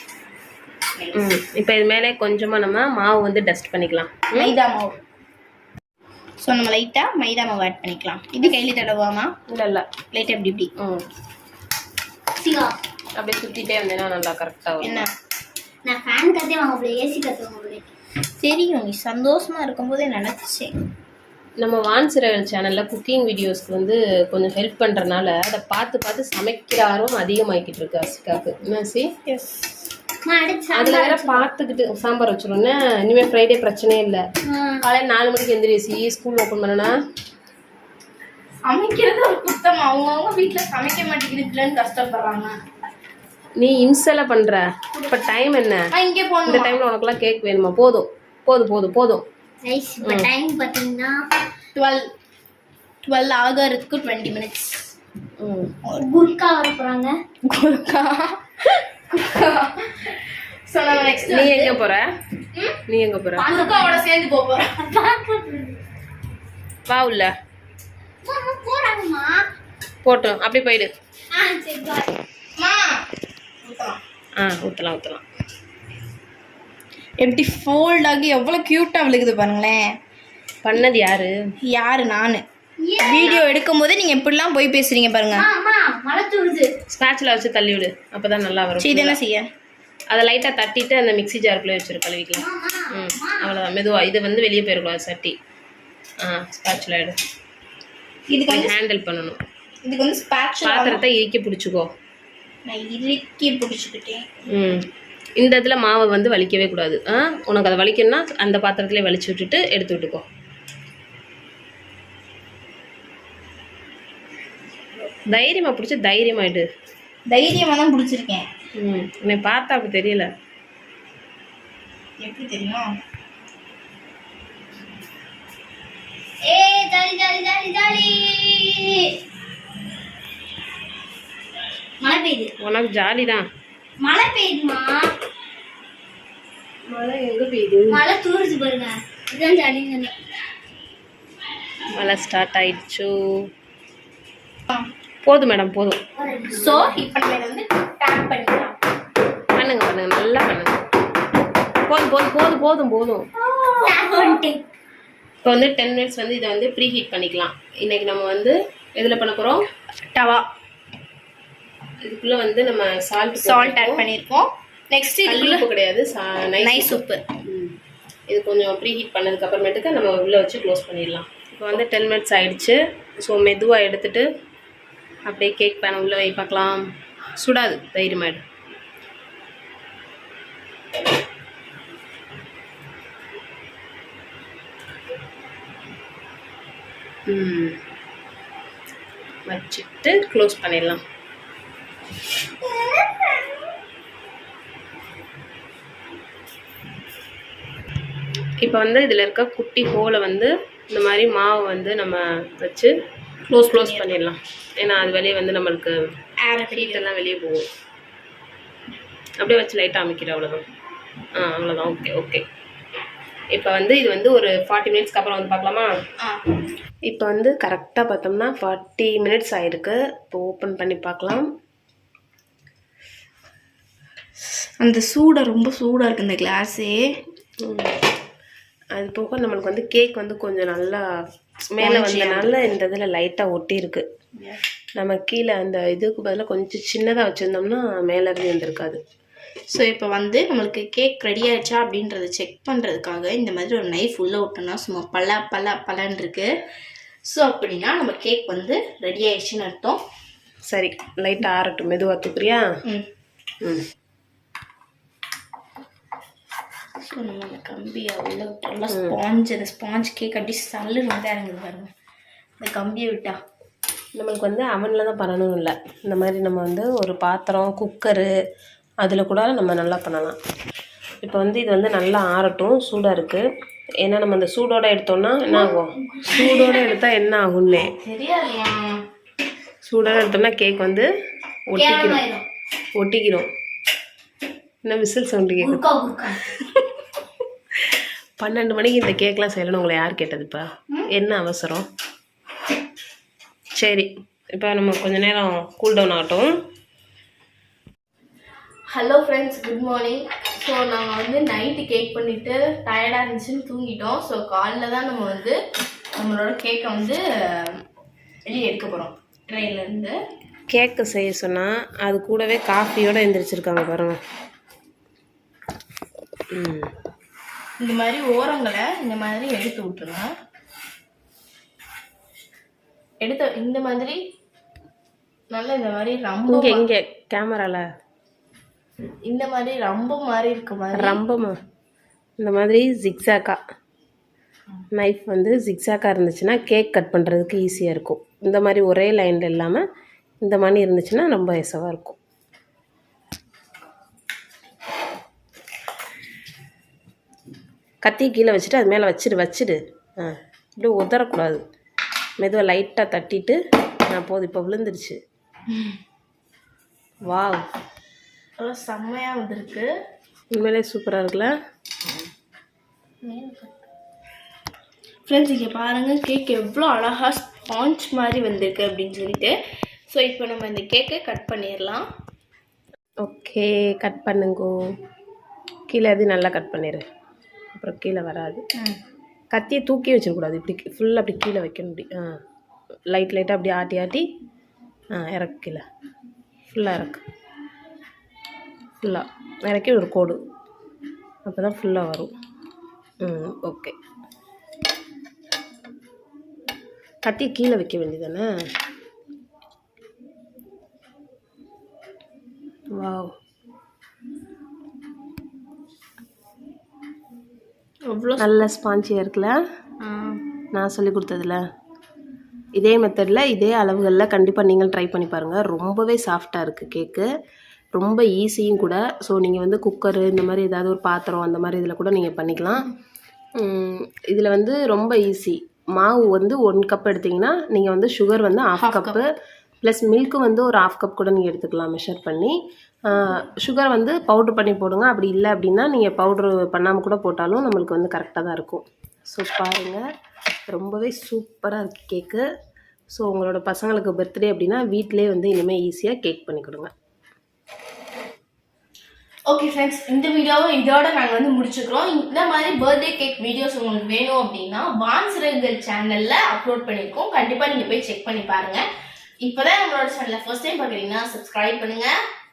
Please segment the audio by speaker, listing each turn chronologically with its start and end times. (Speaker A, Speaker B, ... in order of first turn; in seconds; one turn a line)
Speaker A: 1.0-1.4
Speaker B: 1.1-4.5
Speaker A: 4.3-5.0
Speaker A: 6.4-9.3
Speaker B: 9.5-9.9
Speaker A: 10.1-10.7
Speaker B: 10.8-11.1
Speaker C: 12.4-12.8
Speaker B: 13.2-15.0
Speaker A: 14.8-15.1
Speaker C: 15.8-17.9
Speaker A: 18.4-20.7
Speaker B: 21.6-29.1
Speaker A: 29.3-29.7
Speaker C: 30.3-31.5
Speaker B: 30.7-34.2
Speaker C: 34.5-34.8
Speaker B: 34.8-36.9
Speaker A: 38.7-42.6
Speaker B: 43.6-45.9
Speaker A: 45.9-46.8
Speaker B: 46.5-49.2
Speaker C: 49.6-51.2
Speaker B: 50.0-50.3
Speaker A: 51.8-52.0
Speaker A: 53.0-54.8
Speaker B: 55.4-55.7
Speaker C: 55.9-57.1
Speaker A: 57.5-61.8
Speaker B: 61.2-62.1
Speaker B: 62.9-63.5
Speaker C: 63.4-64.0
Speaker A: 63.4-64.8
Speaker C: 64.8-65.8
Speaker B: 66.9-67.3
Speaker C: 68.2-69.4
Speaker B: 70.0-70.9
Speaker C: 71.3-72.1
Speaker A: 72.6-73.0
Speaker A: 73.6-74.0
Speaker B: 74.4-75.2
Speaker A: 77.2-79.8
Speaker B: 80.6-81.3
Speaker A: 81.7-82.4
Speaker C: 82.8-83.4
Speaker A: 83.0-85.5
Speaker C: 85.4-86.7
Speaker B: 86.9-89.2
Speaker A: 88.8-89.5
Speaker B: 90.1-95.3
Speaker C: 92.4-93.6
Speaker B: 96.2-97.2
Speaker A: 98.3-98.8
Speaker B: 98.5-99.4
Speaker A: 99.9-101.0
Speaker B: 100.6-101.9
Speaker A: 102.7-104.3
Speaker B: 104.5-104.9
Speaker B: 105.4-110.2
Speaker B: 115.3-116.7
Speaker A: 117.3-118.5
Speaker B: 118.8-120.3
Speaker A: 122.2-122.9
Speaker C: 126.5-129.1
Speaker C: 132.0-132.5
Speaker B: 132.6-133.4
Speaker C: 134.0-135.1
Speaker B: 136.9-138.0
Speaker C: 137.9-140.1
Speaker B: 141.9-143.1
Speaker B: 145.2-146.0
Speaker C: 146.2-146.9
Speaker A: 146.5-148.8
Speaker B: 149.6-150.8
Speaker B: 151.9-153.3
Speaker C: 153.4-154.6
Speaker A: 153.9-154.3
Speaker B: 155.4-159.7
Speaker A: 160.1-160.4
Speaker B: 162.0-164.0
Speaker A: 163.4-165.7
Speaker B: 165.3-167.8
Speaker A: 166.6-167.2
Speaker B: 168.3-174.3
Speaker B: 175.3-176.8
Speaker B: 177.4-178.4
Speaker B: 187.3-187.8
Speaker B: 189.5-191.0
Speaker C: 192.6-193.6
Speaker B: 198.6-202.9
Speaker B: 203.5-205.9
Speaker A: 203.6-204.1
Speaker A: 206.4-207.1
Speaker B: 206.7-207.7
Speaker B: 209.4-210.6
Speaker B: 211.3-212.4
Speaker B: 213.5-216.0
Speaker B: 217.1-221.5
Speaker A: 224.8-227.1
Speaker B: 227.6-228.0
Speaker B: 228.9-231.0
Speaker B: 231.7-234.0
Speaker A: 231.8-232.6
Speaker B: 235.0-239.0
Speaker A: 239.7-246.5
Speaker A: 247.3-250.0
Speaker B: 250.7-252.7
Speaker A: 257.1-261.9
Speaker A: 262.6-263.4
Speaker B: 264.2-268.3
Speaker B: 269.0-270.4
Speaker B: 271.2-273.4
Speaker B: 274.0-277.9
Speaker C: 275.5-277.0
Speaker A: 277.8-279.0
Speaker B: 279.8-281.1
Speaker B: 281.7-282.2
Speaker C: 281.8-282.4
Speaker B: 282.9-283.5
Speaker B: 284.9-285.9
Speaker C: 285.6-286.5
Speaker B: 288.4-291.9
Speaker B: 293.8-296.5
Speaker A: 298.9-305.6
Speaker A: 306.2-307.8
Speaker A: 308.5-310.2
Speaker B: 310.7-314.2
Speaker B: 316.5-316.9
Speaker A: 317.8-320.3
Speaker A: 323.2-324.2
Speaker A: 325.5-326.9
Speaker B: 326.5-327.9
Speaker A: 329.3-331.2
Speaker B: 330.9-331.6
Speaker B: 332.4-333.6
Speaker B: 334.9-339.8
Speaker B: 340.4-342.2
Speaker B: 348.0-351.6
Speaker B: 352.4-355.2
Speaker A: 355.7-356.0
Speaker B: 357.3-357.7
Speaker A: 358.6-359.9
Speaker B: 360.5-361.6
Speaker A: 363.2-363.7
Speaker A: 365.3-369.5
Speaker A: 370.1-372.1
Speaker B: 373.2-374.7
Speaker B: 375.9-377.0
Speaker B: 377.7-378.6
Speaker B: 379.5-382.4
Speaker B: 383.1-384.2
Speaker B: 385.1-385.8
Speaker B: 386.7-387.2
Speaker B: 389.0-390.4
Speaker B: 391.5-392.3
Speaker B: 393.2-393.9
Speaker B: 397.2-398.5
Speaker B: 403.0-403.3
Speaker A: 408.1-408.7
Speaker B: 408.4-409.6
Speaker A: 410.0-410.4
Speaker B: 410.7-411.6
Speaker B: 412.8-417.3
Speaker B: 417.9-422.9
Speaker B: 423.6-429.2
Speaker A: 428.8-429.2
Speaker B: 429.8-432.5
Speaker B: 433.1-440.0
Speaker B: 440.7-442.4
Speaker B: 443.1-446.9
Speaker A: 449.5-458.9
Speaker A: 459.4-462.1